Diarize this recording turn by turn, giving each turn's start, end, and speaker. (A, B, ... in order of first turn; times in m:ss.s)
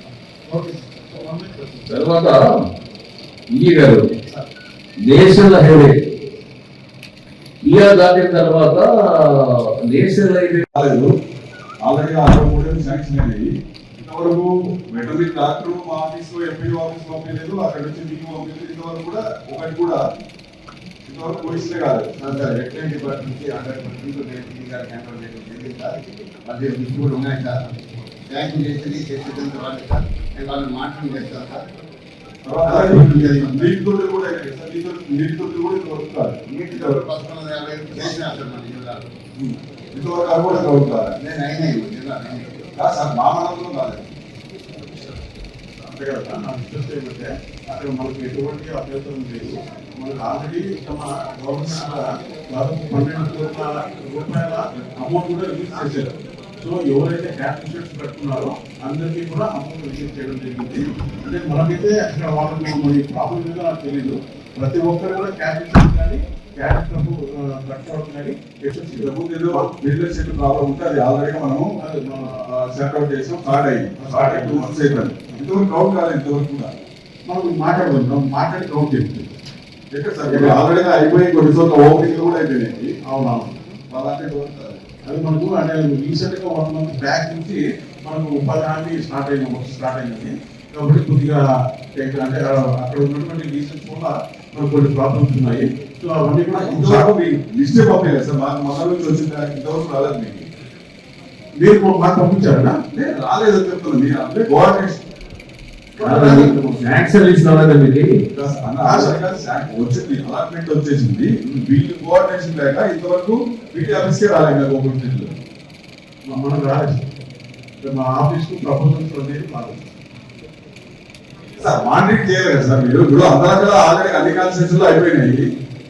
0:00.5-0:01.9 A
0:01.9-0:02.4 B
0:03.5-0:04.1 B
0:05.0-0:06.0 B
0:07.6-0:10.6 B
0:10.7-0:11.1 C
0:11.8-0:20.0 C
0:21.1-0:22.2 C
0:22.2-0:27.6 D
0:28.3-0:31.7 D
0:32.4-0:37.0 C
0:32.6-0:33.7 D
0:36.6-0:39.1 D
0:39.4-0:41.2 C
0:41.2-0:42.7 D
0:42.8-0:44.0 C
0:44.8-0:45.1 A
0:45.8-1:09.1 A
1:08.9-1:11.7 C
1:11.8-1:12.4 A
1:12.4-1:16.8 C
1:14.0-1:15.4 A
1:17.2-1:19.3 A
1:19.9-1:22.9 C
1:20.2-1:20.6 A
1:23.0-1:23.6 A
1:23.9-1:24.8 C
1:25.0-1:31.4 A
1:31.9-1:37.1 A
1:36.5-1:40.5 C
1:41.6-1:42.8 A
1:42.9-1:45.0 C
1:46.0-1:46.6 A
1:46.0-1:48.1 B
1:48.3-1:55.4 C
1:48.8-1:49.2 A
1:56.2-1:57.1 A
1:57.8-1:59.9 A
2:01.6-2:05.5 C